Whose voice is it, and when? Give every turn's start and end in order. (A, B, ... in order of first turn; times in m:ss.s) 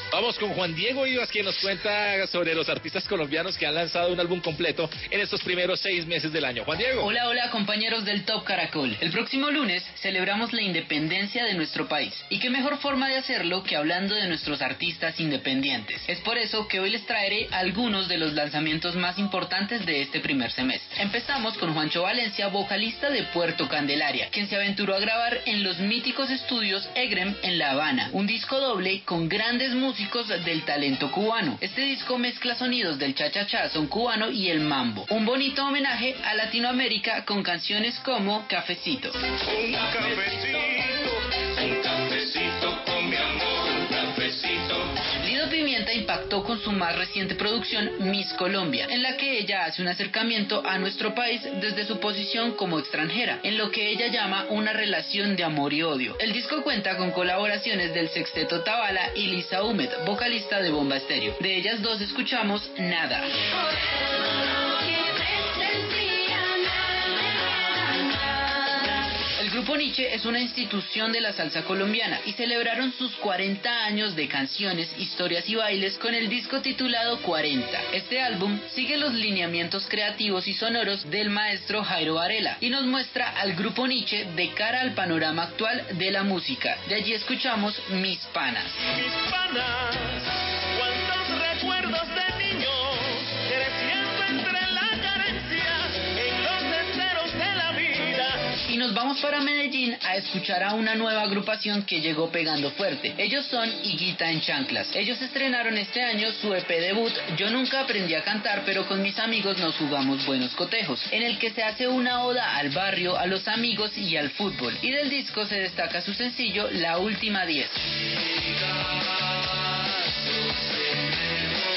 0:00.1-0:07.1 A
0:07.0-0:39.2 B
0:39.6-0:41.1 C
0:45.2-1:03.3 B
1:09.4-1:28.8 B
1:28.9-1:30.2 C
1:30.8-1:38.4 C
1:38.6-1:57.8 B